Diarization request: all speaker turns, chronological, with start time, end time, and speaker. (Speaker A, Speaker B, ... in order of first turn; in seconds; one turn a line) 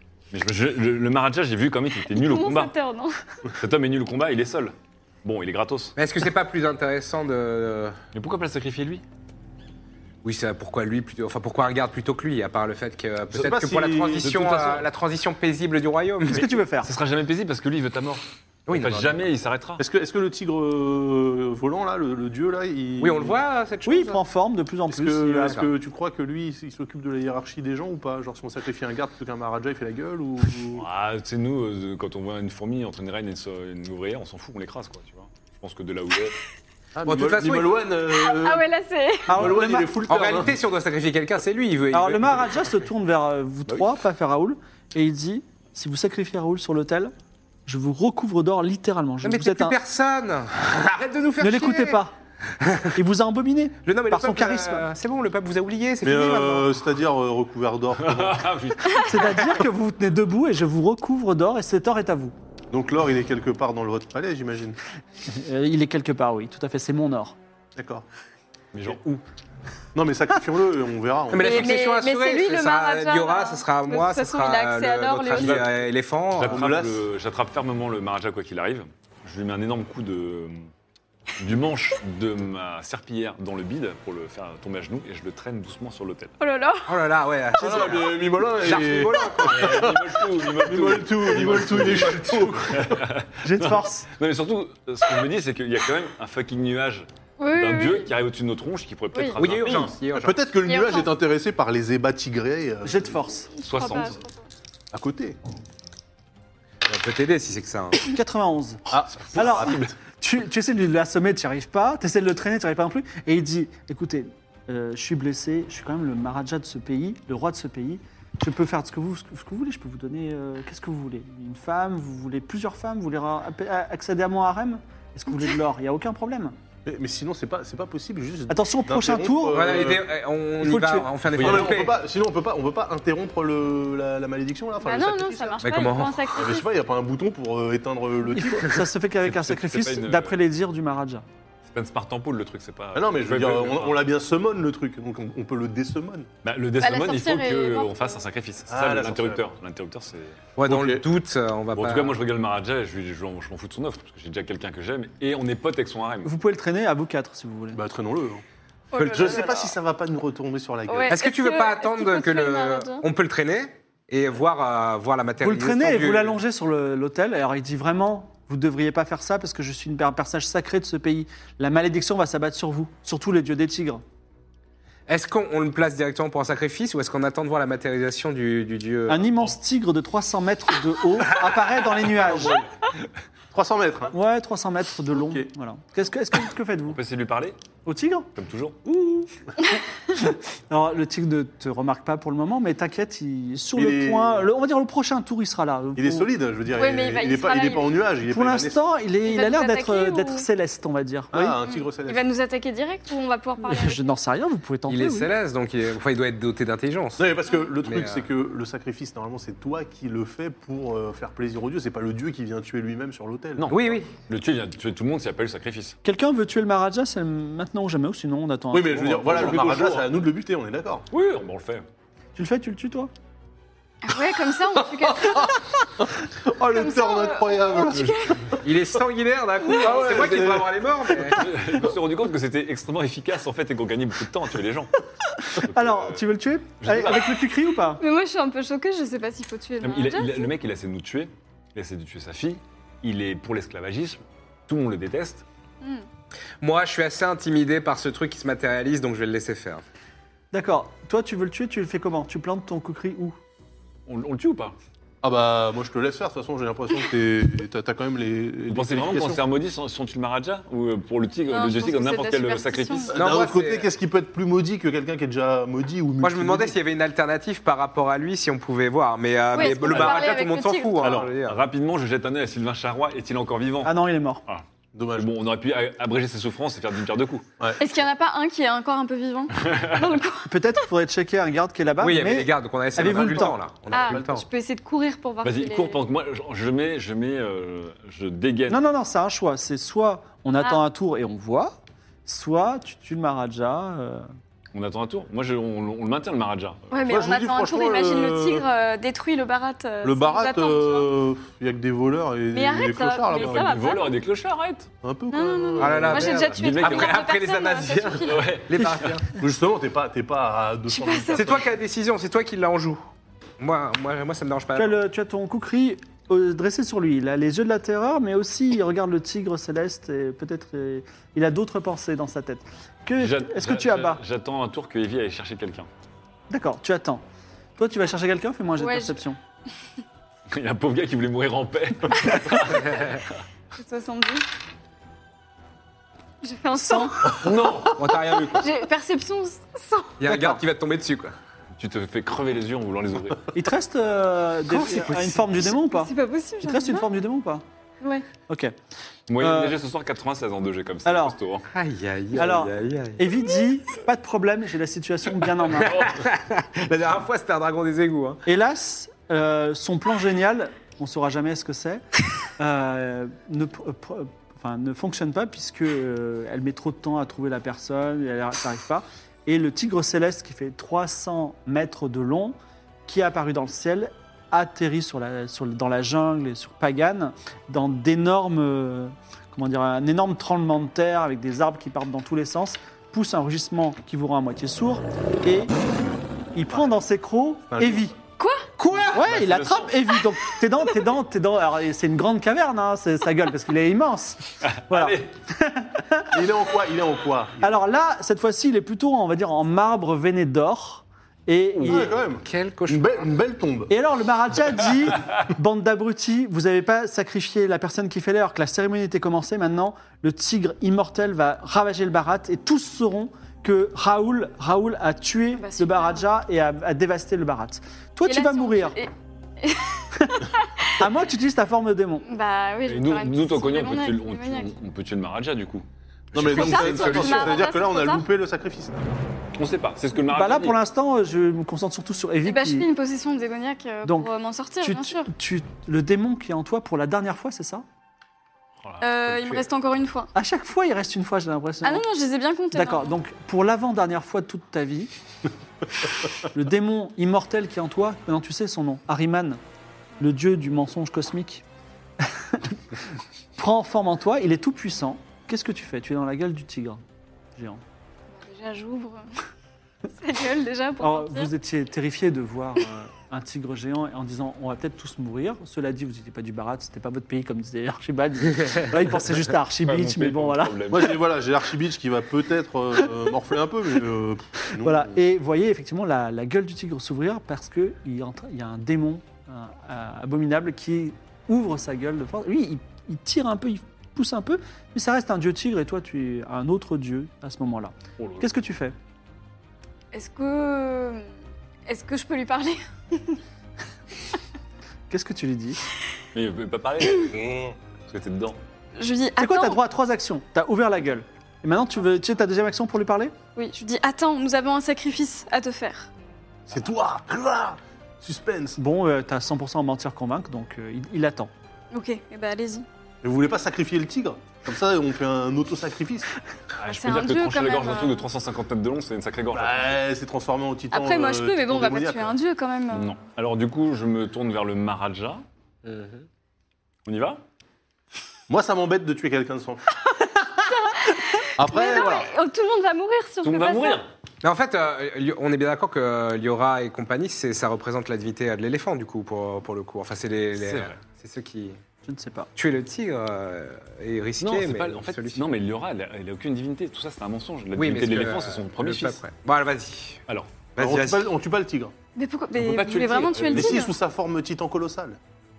Speaker A: 0.3-2.7
Speaker B: 2.1-3.2
Speaker A: 3.6-6.0
Speaker C: 6.0-8.0
Speaker A: 8.1-9.0
Speaker C: 10.2-16.6
Speaker D: 13.4-14.4
Speaker A: 14.1-14.9
Speaker E: 16.3-16.9
Speaker A: 16.8-19.8
Speaker C: 18.7-19.2
Speaker D: 19.8-23.4
Speaker C: 23.0-24.2
Speaker E: 23.9-25.7
Speaker D: 24.9-30.9
Speaker A: 30.8-36.4
Speaker D: 37.0-38.6
Speaker C: 37.1-37.8
Speaker B: 38.1-39.4
Speaker E: 39.3-40.0
Speaker D: 39.3-40.5
Speaker C: 40.1-42.7
Speaker E: 41.9-47.1
Speaker E: 47.7-49.8
Speaker C: 49.2-52.0
Speaker E: 51.4-52.1
Speaker C: 52.6-53.0
Speaker E: 52.9-54.9
Speaker C: 53.8-56.7
Speaker D: 56.0-58.5
Speaker A: 58.0-59.5
Speaker E: 59.0-62.3
Speaker D: 62.7-64.8
Speaker E: 65.2-67.4
Speaker D: 67.8-68.0
Speaker A: 68.7-69.2
Speaker D: 70.0-71.7
Speaker C: 71.3-76.7
Speaker B: 71.4-75.5
Speaker A: 75.3-75.8
Speaker A: 76.3-80.7
Speaker D: 76.4-77.0
Speaker A: 81.4-86.3
Speaker B: 86.4-86.9
Speaker C: 86.9-89.8
Speaker D: 87.6-93.0
Speaker A: 89.4-99.9
Speaker E: 93.4-94.1
Speaker B: 97.4-98.1
Speaker B: 99.1-99.4
Speaker C: 99.4-100.4
Speaker D: 99.6-103.2
Speaker B: 100.7-101.1
Speaker E: 102.8-103.5
Speaker B: 103.6-104.5
Speaker A: 103.7-104.2
Speaker D: 104.9-105.4
Speaker C: 106.8-108.0
Speaker E: 108.1-126.5
Speaker D: 108.9-110.0
Speaker D: 126.9-130.1
Speaker E: 128.5-129.9
Speaker C: 129.5-132.0
Speaker E: 130.6-131.1
Speaker A: 131.3-131.8
Speaker D: 131.4-135.6
Speaker B: 134.8-136.7
Speaker C: 135.6-136.4
Speaker D: 136.3-138.9
Speaker E: 138.3-141.2
Speaker A: 139.2-140.4
Speaker A: 141.7-144.0
Speaker D: 142.9-146.3
Speaker A: 146.4-150.4
Speaker B: 146.8-148.2
Speaker D: 148.7-149.4
Speaker C: 150.6-152.2
Speaker D: 150.6-151.1
Speaker A: 151.7-156.3
Speaker E: 156.2-157.8
Speaker D: 157.7-158.4
Speaker B: 158.9-159.7
Speaker C: 159.0-159.6
Speaker D: 159.0-161.2
Speaker B: 160.9-163.1
Speaker C: 161.1-166.4
Speaker E: 165.4-174.0
Speaker C: 175.1-179.4
Speaker E: 179.1-182.6
Speaker D: 182.2-182.7
Speaker D: 183.5-184.1
Speaker E: 184.1-187.0
Speaker D: 185.1-185.5
Speaker A: 186.9-187.6
Speaker E: 187.8-188.3
Speaker A: 188.4-188.9
Speaker E: 190.1-196.3
Speaker D: 193.8-194.5
Speaker D: 196.0-198.8
Speaker B: 196.7-198.0
Speaker E: 198.3-201.6
Speaker B: 199.2-200.5
Speaker D: 201.3-202.2
Speaker B: 201.7-204.1
Speaker E: 203.7-205.3
Speaker C: 204.9-208.3
Speaker D: 207.2-213.8
Speaker A: 213.6-216.0
Speaker C: 213.7-214.1
Speaker E: 216.0-219.9
Speaker D: 218.7-221.1
Speaker A: 219.3-220.0
Speaker A: 221.1-221.8
Speaker E: 222.4-223.1
Speaker B: 224.0-225.6
Speaker D: 224.8-228.6
Speaker B: 226.7-228.4
Speaker A: 227.9-228.3
Speaker C: 228.6-231.6
Speaker B: 229.6-230.2
Speaker D: 230.0-230.7
Speaker A: 230.1-230.4
Speaker A: 231.2-235.0
Speaker E: 235.4-238.0
Speaker A: 235.6-236.3
Speaker A: 236.8-237.4
Speaker B: 238.0-240.5
Speaker A: 239.8-245.4
Speaker C: 246.6-249.8
Speaker E: 250.5-253.4
Speaker A: 254.1-254.8
Speaker D: 255.2-259.4
Speaker A: 258.7-263.1
Speaker B: 261.5-263.2
Speaker D: 263.1-266.8
Speaker C: 263.1-263.9
Speaker C: 266.2-271.6
Speaker B: 269.5-271.0
Speaker A: 269.6-270.3
Speaker A: 271.0-274.6
Speaker E: 273.8-274.4
Speaker D: 274.9-275.3
Speaker A: 275.1-277.5
Speaker B: 277.8-280.5
Speaker A: 279.6-280.1
Speaker E: 280.5-283.6
Speaker C: 282.0-284.4
Speaker B: 283.9-286.0
Speaker D: 284.0-284.3
Speaker A: 285.4-288.8
Speaker E: 288.7-294.3
Speaker A: 294.7-296.9
Speaker B: 296.9-301.1
Speaker D: 297.1-298.7
Speaker D: 300.0-303.7
Speaker B: 302.5-304.1
Speaker A: 303.3-304.9
Speaker D: 305.0-306.5
Speaker B: 305.3-308.5
Speaker C: 305.8-309.2
Speaker A: 306.5-307.2
Speaker A: 308.2-309.2
Speaker D: 309.4-311.7
Speaker B: 310.9-311.6
Speaker C: 311.3-313.0
Speaker C: 313.6-315.0
Speaker E: 314.8-324.2
Speaker A: 323.2-325.9
Speaker E: 326.5-327.2
Speaker E: 327.8-329.4
Speaker B: 328.8-329.2
Speaker A: 330.5-333.1
Speaker C: 332.6-333.2
Speaker B: 333.8-334.4
Speaker B: 336.4-337.4
Speaker E: 336.8-337.1
Speaker A: 337.3-338.0
Speaker C: 337.9-338.7
Speaker B: 338.5-340.2
Speaker C: 340.2-341.4
Speaker E: 340.2-340.6
Speaker A: 341.8-343.5
Speaker E: 343.5-346.1
Speaker C: 344.7-345.7
Speaker B: 345.8-347.1
Speaker E: 346.6-347.6
Speaker B: 348.0-348.3
Speaker E: 348.5-348.7
Speaker A: 349.3-351.7
Speaker E: 349.4-349.7
Speaker E: 351.1-351.4
Speaker C: 351.7-353.3
Speaker E: 352.4-356.0
Speaker C: 355.8-358.4
Speaker A: 355.8-356.2
Speaker E: 358.5-362.0
Speaker E: 362.6-372.6
Speaker E: 373.1-385.7
Speaker E: 386.6-388.1
Speaker D: 387.7-388.1
Speaker B: 388.4-388.7
Speaker C: 388.8-389.1
Speaker A: 388.9-390.0
Speaker E: 389.1-396.4
Speaker A: 394.7-395.3
Speaker D: 396.3-397.8
Speaker E: 397.6-402.1
Speaker A: 401.8-402.1
Speaker D: 401.9-403.9
Speaker C: 402.4-403.2
Speaker E: 403.9-419.0
Speaker B: 415.5-416.3
Speaker B: 418.2-421.1
Speaker E: 421.0-422.2
Speaker B: 422.2-424.8
Speaker A: 422.9-427.6
Speaker D: 426.3-429.1
Speaker C: 426.4-427.2
Speaker B: 426.5-428.3
Speaker A: 429.6-430.8
Speaker E: 430.3-432.9
Speaker B: 432.4-435.3
Speaker E: 434.8-437.9
Speaker A: 438.8-439.6
Speaker B: 439.0-440.3
Speaker E: 440.3-442.1
Speaker B: 441.8-443.2
Speaker E: 442.7-445.1
Speaker E: 446.4-449.6
Speaker E: 450.2-451.6
Speaker E: 452.2-453.0
Speaker E: 453.6-457.0
Speaker E: 457.6-457.8
Speaker B: 458.3-459.3
Speaker B: 460.2-461.5
Speaker E: 461.0-471.1
Speaker A: 469.8-471.2
Speaker D: 470.9-475.1
Speaker E: 474.8-488.9
Speaker A: 488.2-488.5
Speaker B: 490.1-491.3
Speaker B: 491.9-493.4
Speaker E: 495.1-495.8
Speaker A: 496.3-498.6
Speaker B: 499.0-499.8
Speaker E: 499.4-503.4
Speaker B: 503.6-506.1
Speaker D: 506.7-508.8
Speaker E: 508.8-511.5
Speaker B: 511.9-512.9
Speaker D: 513.2-516.3
Speaker A: 516.8-520.0
Speaker B: 516.8-518.2
Speaker D: 519.5-522.4
Speaker B: 520.9-523.1
Speaker A: 522.9-525.4
Speaker C: 525.9-526.2
Speaker A: 527.1-527.4
Speaker D: 528.5-529.8
Speaker B: 530.2-534.0
Speaker D: 531.6-532.3
Speaker A: 533.4-534.1
Speaker C: 534.4-541.8
Speaker A: 540.6-541.0
Speaker E: 542.1-542.5
Speaker C: 542.6-545.5
Speaker A: 544.4-549.2
Speaker C: 547.8-550.2
Speaker C: 550.8-551.3
Speaker D: 550.8-551.9
Speaker B: 552.2-554.0
Speaker A: 552.5-553.9
Speaker D: 553.4-555.2